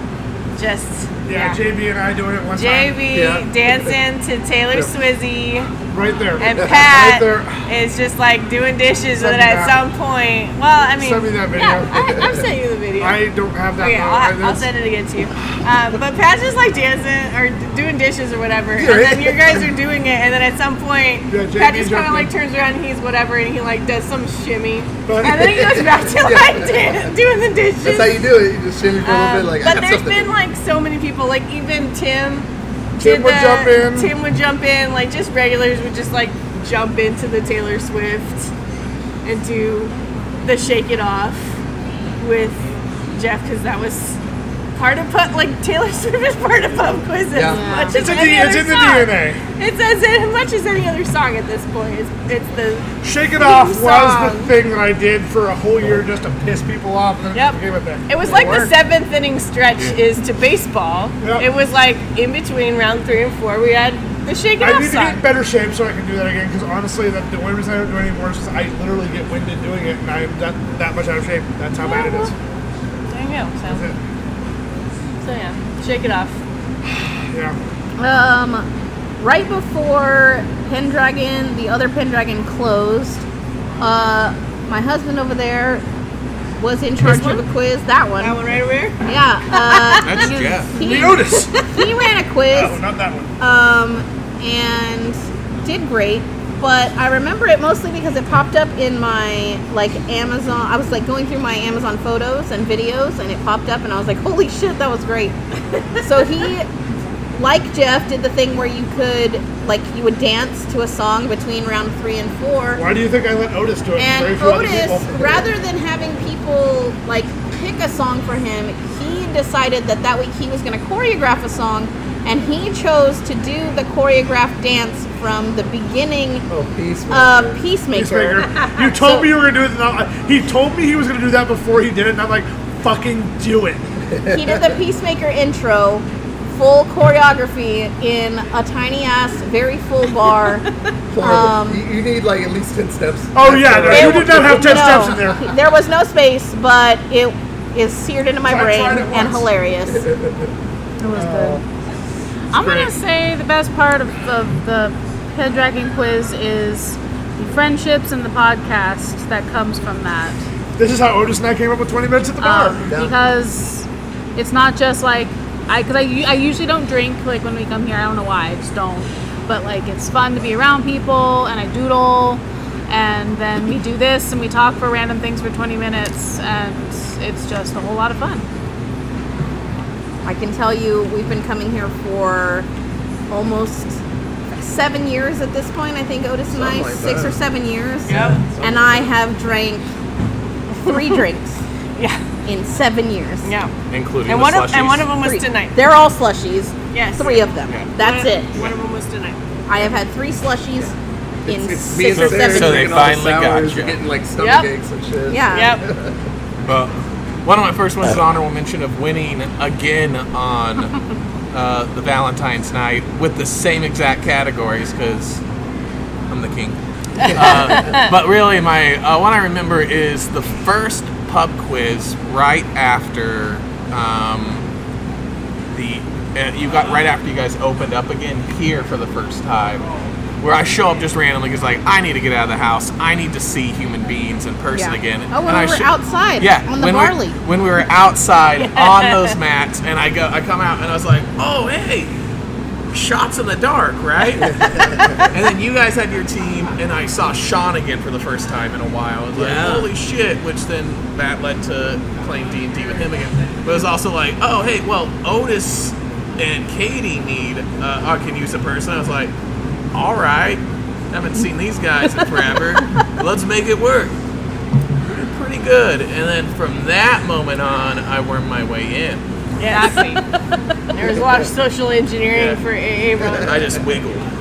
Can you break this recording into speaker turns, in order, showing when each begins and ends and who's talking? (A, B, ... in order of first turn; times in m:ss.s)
0:00.6-0:01.6 A
0:01.2-0:03.0 B
0:02.5-0:05.8 A
0:03.1-0:04.0 C
0:05.9-0:07.7 B
0:06.4-0:13.2 A
0:09.2-0:09.8 B
0:11.0-0:12.3 B
0:13.0-0:14.7 B
0:13.8-0:28.2 A
0:18.8-0:19.7 C
0:21.3-0:22.3 B
0:25.1-0:25.8 B
0:25.3-0:27.1 C
0:27.8-0:30.3 C
0:29.0-0:38.5 A
0:33.0-0:34.1 B
0:39.2-0:39.9 A
0:40.4-0:41.5 A
0:42.2-0:44.2 A
0:44.8-0:54.5 A
0:47.3-0:47.6 C
0:47.4-0:48.1 D
0:47.9-0:49.4 B
0:53.0-0:58.7 B
0:57.3-1:05.2 A
0:58.3-0:58.6 C
1:01.2-1:01.5 B
1:04.6-1:12.3 B
1:11.8-1:12.3 A
1:13.1-1:13.9 A
1:13.7-1:14.0 B
1:15.2-1:16.4 A
1:16.9-1:17.6 B
1:18.0-1:18.7 E
1:19.2-1:23.2 E
1:23.8-1:25.8 E
1:26.6-1:28.4 E
1:27.0-1:27.4 A
1:28.2-1:29.0 A
1:29.0-1:32.8 E
1:29.7-1:30.1 A
1:30.0-1:30.8 F
1:30.1-1:31.2 D
1:30.8-1:31.8 B
1:32.5-1:33.3 B
1:33.4-1:45.4 E
1:46.0-1:46.7 E
1:47.3-1:52.8 E
1:52.8-1:55.5 B
1:54.0-2:06.5 E
2:06.5-2:07.7 C
2:07.1-2:09.2 E
2:07.9-2:13.9 B
2:14.1-2:14.8 C
2:14.3-2:20.7 E
2:21.1-2:25.3 C
2:21.2-2:21.8 E
2:23.3-2:25.5 B
2:23.8-2:30.1 E
2:28.4-2:29.5 B
2:29.9-2:30.5 C
2:31.0-2:31.6 D
2:31.1-2:31.6 B
2:32.5-2:40.4 D
2:32.5-2:32.9 B
2:40.8-2:42.9 B
2:42.4-2:58.5 D
2:42.9-2:43.2 C
3:00.2-3:02.7 E
3:03.3-3:04.0 E
3:04.6-3:09.9 E
3:06.5-3:07.4 C
3:08.1-3:08.5 A
3:08.2-3:09.1 C
3:10.7-3:11.6 E
3:10.9-3:11.2 A
3:12.0-3:12.2 A
3:12.5-3:13.5 E
3:13.4-3:13.7 A
3:13.9-3:15.1 F
3:14.3-3:15.8 A
3:15.2-3:18.7 E
3:16.9-3:19.4 A
3:19.7-3:21.0 E
3:21.4-3:26.2 C
3:21.5-3:23.1 E
3:22.1-3:24.0 F
3:24.4-3:24.7 A
3:25.3-3:25.8 E
3:25.5-3:25.8 A
3:26.7-3:26.9 F
3:27.4-3:31.0 F
3:31.5-3:35.4 F
3:36.3-3:44.7 F
3:37.2-3:38.0 C
3:37.2-3:38.0 A
3:45.7-3:49.9 F
3:50.4-4:02.1 F
3:54.7-3:57.3 E
3:58.6-3:59.4 A
4:02.9-4:19.3 F
4:04.4-4:05.2 C
4:09.4-4:09.9 C
4:19.9-4:24.2 F
4:22.1-4:22.8 A
4:25.1-4:29.2 F
4:29.6-4:30.2 A
4:29.7-4:30.2 D
4:30.9-4:33.5 A
4:31.0-4:31.5 C
4:33.4-4:34.3 F